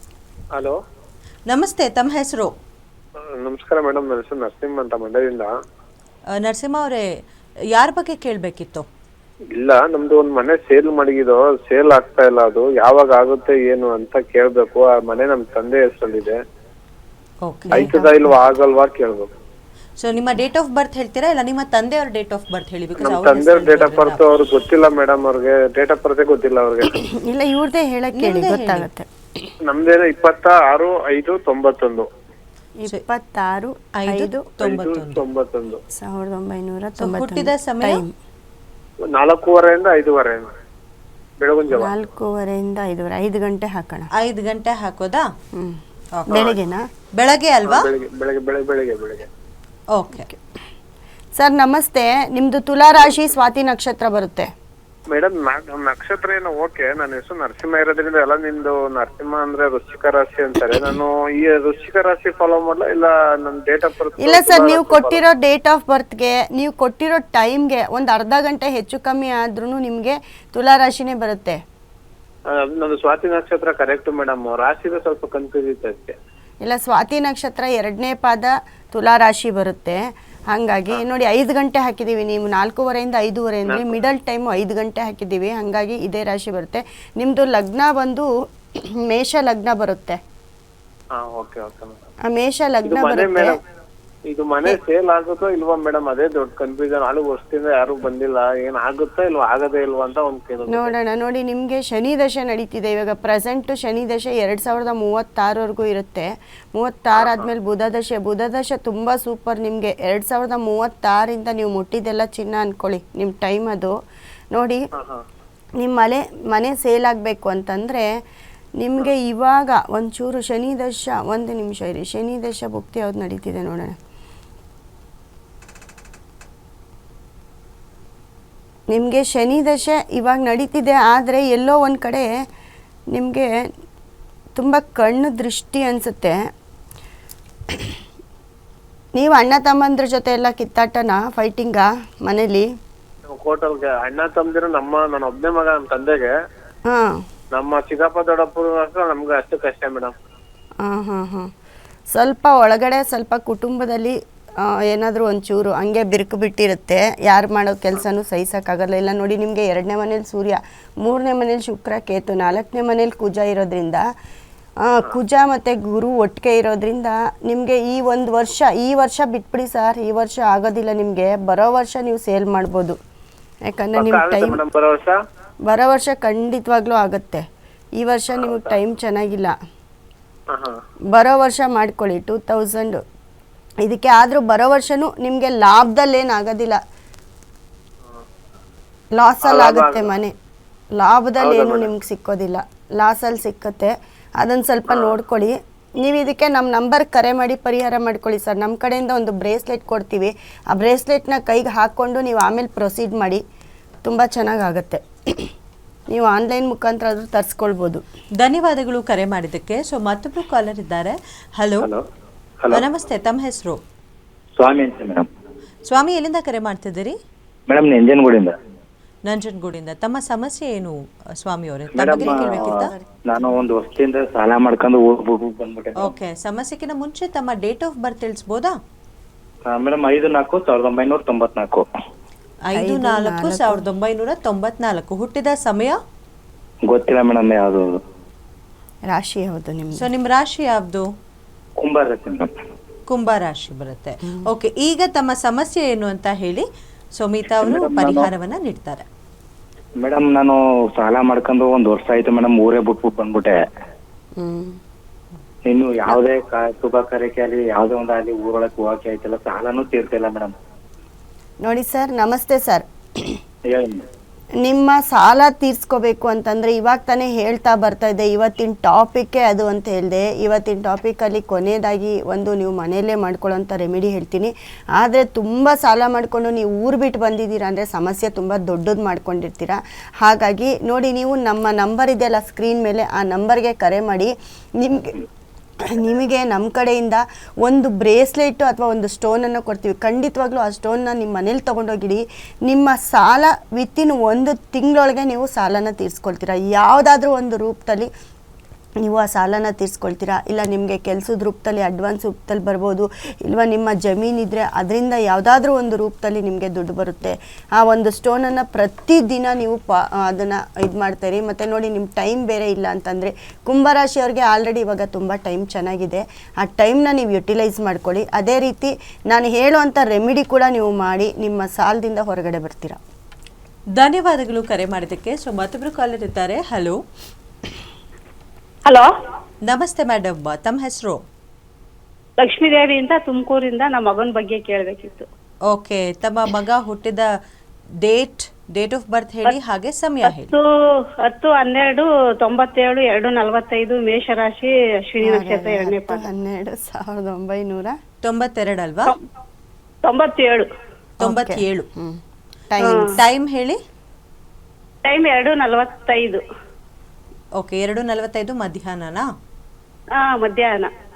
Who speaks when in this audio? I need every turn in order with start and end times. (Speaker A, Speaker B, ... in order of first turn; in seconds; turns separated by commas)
Speaker A: 1.5-2.5, Speaker B: 3.4-5.5, Speaker A: 6.4-7.1, Speaker A: 7.7-8.8, Speaker B: 9.6-16.4, Speaker A: 17.4-17.9, Speaker C: 17.7-18.2, Speaker B: 17.7-19.3, Speaker A: 20.0-24.2, Speaker B: 23.0-26.9, Speaker C: 26.9-29.5, Speaker A: 28.1-28.9, Speaker B: 29.7-32.1, Speaker C: 32.8-34.5, Speaker A: 34.0-35.2, Speaker B: 34.6-35.8, Speaker C: 36.0-38.1, Speaker A: 37.0-38.0, Speaker B: 39.1-40.5, Speaker B: 41.4-41.9, Speaker C: 41.7-44.1, Speaker A: 44.2-45.2, Speaker A: 46.2-46.5, Speaker C: 46.3-46.8, Speaker A: 47.1-47.9, Speaker B: 47.6-49.2, Speaker A: 49.9-50.3, Speaker C: 51.4-54.5, Speaker B: 55.1-65.3, Speaker C: 64.2-71.6, Speaker B: 72.5-76.1, Speaker C: 76.6-88.3, Speaker B: 83.7-83.9, Speaker C: 89.1-90.2, Speaker B: 91.2-92.0, Speaker C: 92.2-93.5, Speaker B: 92.8-93.5, Speaker B: 94.3-100.9, Speaker C: 100.7-113.9, Speaker B: 107.2-107.5, Speaker C: 114.5-114.8, Speaker B: 115.0-115.2, Speaker C: 115.8-118.1, Speaker C: 118.8-124.0, Speaker C: 128.9-132.3, Speaker C: 133.1-133.5, Speaker C: 134.5-136.4, Speaker C: 139.1-142.7, Speaker B: 143.3-146.3, Speaker C: 146.9-147.2, Speaker B: 147.5-150.1, Speaker C: 150.8-151.5, Speaker C: 152.1-164.0, Speaker C: 164.8-173.0, Speaker C: 173.7-174.6, Speaker B: 174.0-175.2, Speaker C: 175.7-177.4, Speaker C: 178.0-179.5, Speaker B: 178.3-178.8, Speaker C: 181.1-183.0, Speaker C: 183.8-186.8, Speaker C: 189.1-190.3, Speaker B: 189.4-190.1, Speaker C: 190.9-203.4, Speaker B: 191.4-191.9, Speaker B: 194.9-195.1, Speaker C: 204.0-205.5, Speaker C: 206.1-208.0, Speaker A: 208.4-211.9, Speaker A: 212.7-213.8, Speaker D: 214.6-215.3, Speaker A: 215.9-217.2, Speaker D: 217.7-218.5, Speaker A: 219.3-222.9, Speaker D: 221.9-226.1, Speaker C: 222.0-223.6, Speaker A: 226.0-228.8, Speaker D: 229.7-231.8, Speaker A: 232.7-236.0, Speaker C: 232.7-233.8, Speaker D: 236.9-237.8, Speaker C: 239.1-240.1, Speaker A: 240.0-241.1, Speaker D: 241.8-242.5, Speaker A: 243.1-246.7, Speaker A: 247.2-249.0, Speaker D: 247.5-248.3, Speaker D: 250.0-253.6, Speaker C: 254.4-254.8, Speaker D: 255.7-260.5, Speaker C: 261.6-263.4, Speaker D: 263.7-264.0, Speaker C: 264.6-285.2, Speaker C: 285.9-298.1, Speaker C: 299.0-323.0, Speaker A: 324.0-327.0, Speaker A: 329.7-331.2, Speaker E: 332.5-335.1, Speaker A: 335.7-337.3, Speaker A: 338.0-340.5, Speaker E: 341.9-344.7, Speaker C: 345.2-347.9, Speaker A: 348.2-349.1, Speaker E: 350.1-350.6, Speaker A: 351.2-351.9, Speaker C: 351.2-352.2, Speaker C: 352.7-353.1, Speaker A: 353.0-353.8, Speaker E: 355.1-356.4, Speaker A: 357.6-359.2, Speaker E: 360.3-360.9